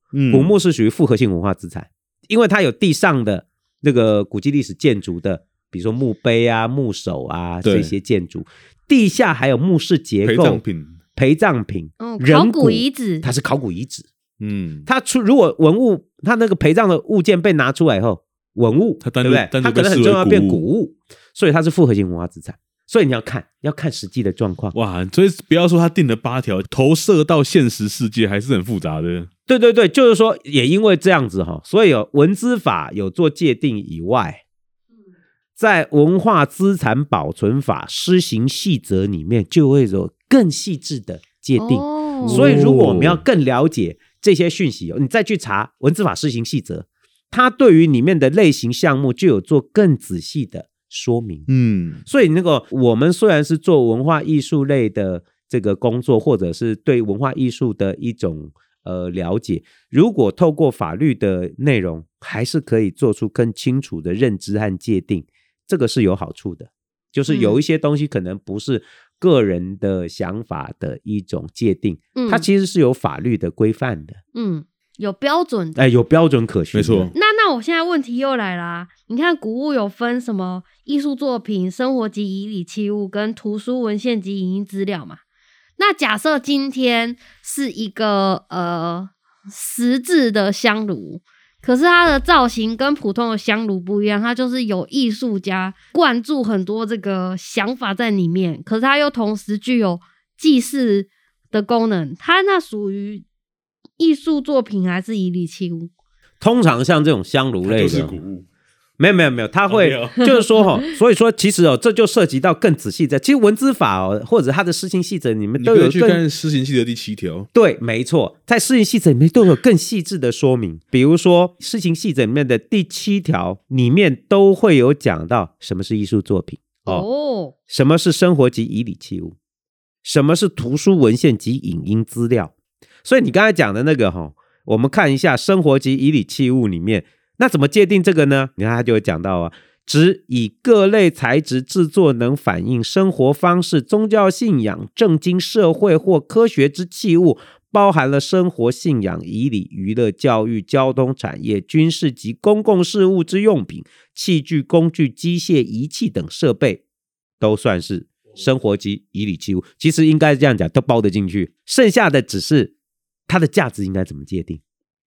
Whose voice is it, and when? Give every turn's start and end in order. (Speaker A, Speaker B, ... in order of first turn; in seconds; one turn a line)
Speaker A: 0.1-0.5
Speaker B: 0.3-10.6
Speaker A: 7.6-7.9
Speaker A: 10.2-11.0
Speaker B: 11.1-14.1
Speaker C: 12.0-13.3
Speaker A: 14.4-14.9
Speaker B: 14.8-24.7
Speaker A: 19.0-20.6
Speaker A: 24.7-29.3
Speaker B: 29.5-34.4
Speaker B: 35.6-51.5
Speaker C: 41.6-42.6
Speaker A: 42.2-43.2
Speaker A: 51.5-52.0
Speaker B: 52.0-74.2
Speaker C: 67.3-67.6
Speaker C: 72.2-72.5
Speaker C: 74.3-75.8
Speaker B: 75.8-77.1
Speaker A: 76.7-77.1
Speaker C: 77.1-85.2
Speaker C: 85.8-103.2
Speaker C: 104.0-105.9
Speaker B: 106.4-108.2
Speaker A: 107.6-108.5
Speaker B: 109.0-116.2
Speaker A: 109.7-110.2
Speaker C: 110.2-110.8
Speaker A: 115.6-117.5
Speaker B: 117.5-127.0
Speaker C: 126.8-127.5
Speaker B: 127.7-129.3
Speaker B: 130.0-132.5
Speaker B: 133.0-156.8
Speaker B: 157.4-162.7
Speaker B: 163.3-164.6